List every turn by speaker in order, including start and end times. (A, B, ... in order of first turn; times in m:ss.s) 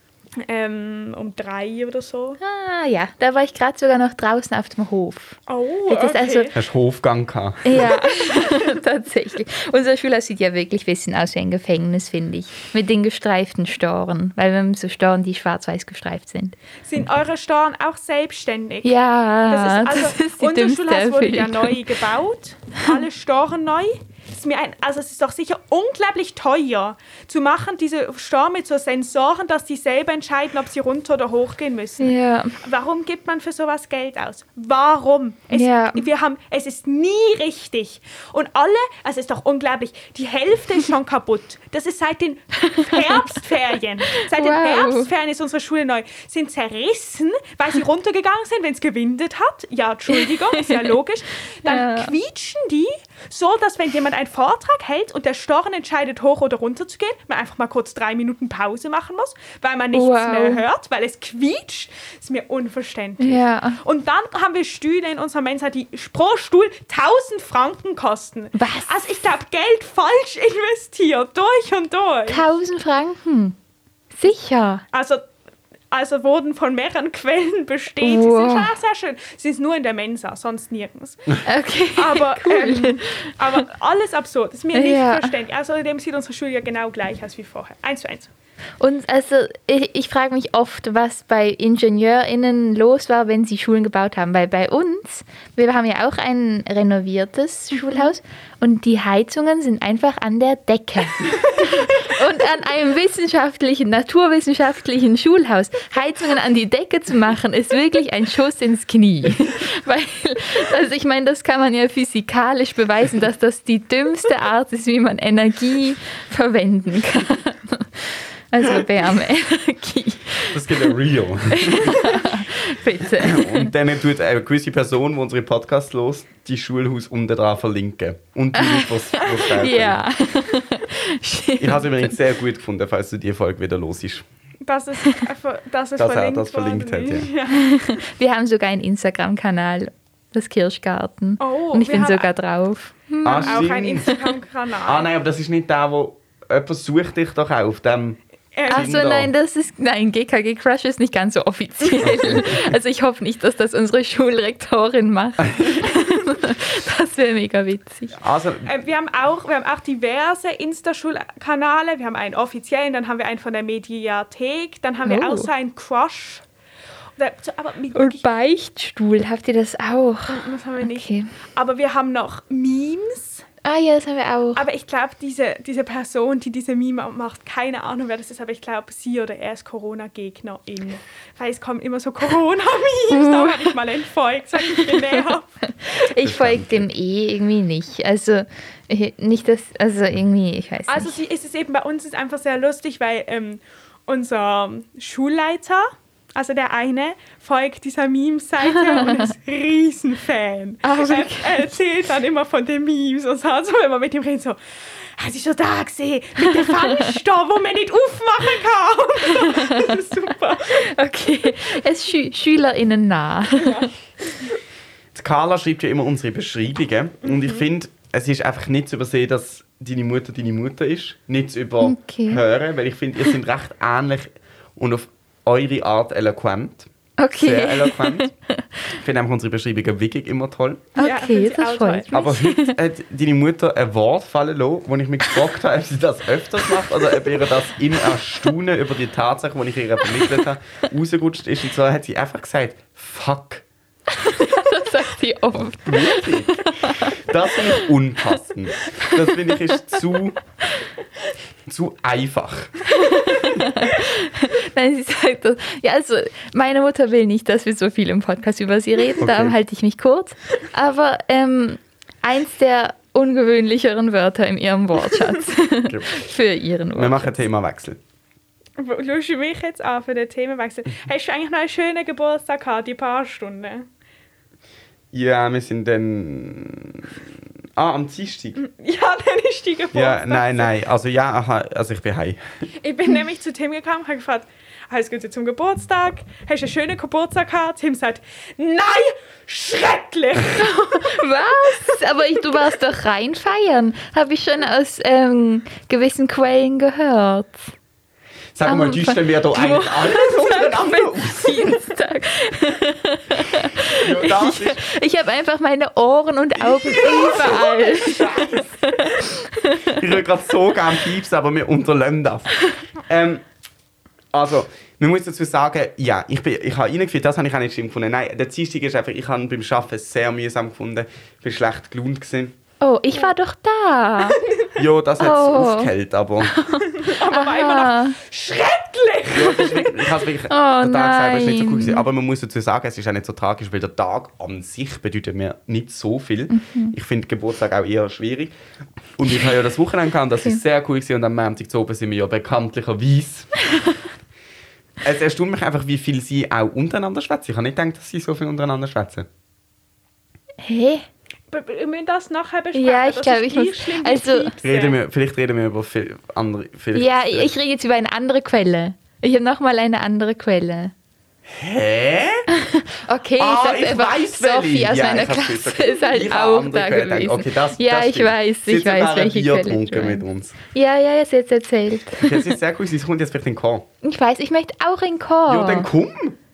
0:00.4-0:02.4 A
0:02.4-0:06.5 B
0:05.5-0:06.6 A
0:06.5-0:07.9 C
0:07.6-0:16.6 B
0:07.8-0:08.8 A
0:16.8-0:18.9 A
0:18.8-0:21.8 B
0:19.5-1:12.5 A
0:32.0-0:32.6 B
0:35.5-0:36.1 B
0:42.6-0:43.3 B
0:44.2-0:45.1 B
0:50.1-0:51.0 B
0:51.6-0:52.1 B
0:59.9-1:00.6 B
1:03.2-1:03.8 B
1:08.6-1:09.0 B
1:12.3-1:13.6 B
1:14.2-1:14.8 B
1:14.9-1:15.2 A
1:15.9-1:21.4 A
1:18.0-1:18.7 B
1:21.4-1:23.6 B
1:21.9-1:28.3 A
1:24.7-1:25.3 B
1:28.8-2:01.0 B
2:00.5-2:02.2 C
2:01.5-2:03.7 B
2:03.1-2:10.0 C
2:08.5-2:12.2 B
2:11.6-2:14.2 C
2:14.6-2:17.9 A
2:16.0-2:17.3 C
2:17.5-2:24.2 B
2:21.4-2:22.3 A
2:23.2-2:24.2 C
2:23.3-2:25.1 A
2:24.9-2:29.3 C
2:28.5-2:28.9 A
2:28.7-2:38.2 B
2:32.0-2:32.7 C
2:38.1-2:38.7 C
2:38.7-2:46.4 A
2:45.0-2:45.5 B
2:47.2-2:48.2 A
2:47.9-2:51.3 B
2:50.3-2:53.4 A
2:53.6-2:54.7 B
2:54.6-3:06.0 A
3:03.1-3:03.8 B
3:04.6-3:05.3 B
3:05.8-3:11.2 B
3:06.2-3:06.9 C
3:10.9-3:24.6 A
3:18.6-3:19.3 B
3:20.8-3:21.7 B
3:25.2-3:30.9 A
3:26.4-3:27.2 B
3:29.2-3:30.0 B
3:30.7-3:33.9 B
3:33.6-3:33.9 A
3:35.1-3:48.3 C
3:37.2-3:37.6 A
3:41.8-3:42.4 B
3:47.2-3:48.7 B
3:48.9-3:50.9 C
3:51.0-3:52.8 B
3:51.0-3:52.1 A
3:52.1-4:03.6 C
4:04.1-4:07.9 B
4:05.8-4:10.4 C
4:08.9-4:10.0 B
4:11.7-4:12.8 C
4:12.9-4:27.4 B
4:19.2-4:19.6 C
4:25.8-4:26.2 C
4:27.0-4:28.0 C
4:28.8-4:33.9 A
4:35.1-4:38.6 C
4:38.6-4:40.7 A
4:39.9-4:42.5 C
4:42.8-4:51.7 A
4:50.6-4:57.7 B
4:58.6-5:01.8 C
4:58.7-5:10.2 B
5:03.9-5:04.8 C
5:06.6-5:08.8 C
5:09.9-5:13.4 C
5:14.3-5:22.6 C
5:22.8-5:24.4 B
5:24.2-5:24.7 A
5:24.8-5:26.6 C
5:25.2-5:25.9 B
5:26.4-5:28.2 B
5:26.8-5:30.0 A
5:29.3-5:38.5 C
5:30.5-5:32.1 B
5:36.5-5:37.0 B
5:39.2-5:43.5 C
5:45.0-5:49.3 C
5:50.6-5:51.0 B
5:51.5-5:55.0 A
5:52.7-5:54.6 B
5:54.6-5:57.5 C
5:56.9-6:00.9 B
6:01.5-6:02.5 C
6:02.5-6:12.6 B
6:03.4-6:10.6 C
6:12.2-6:13.9 C
6:14.0-6:15.9 B
6:15.5-6:16.4 C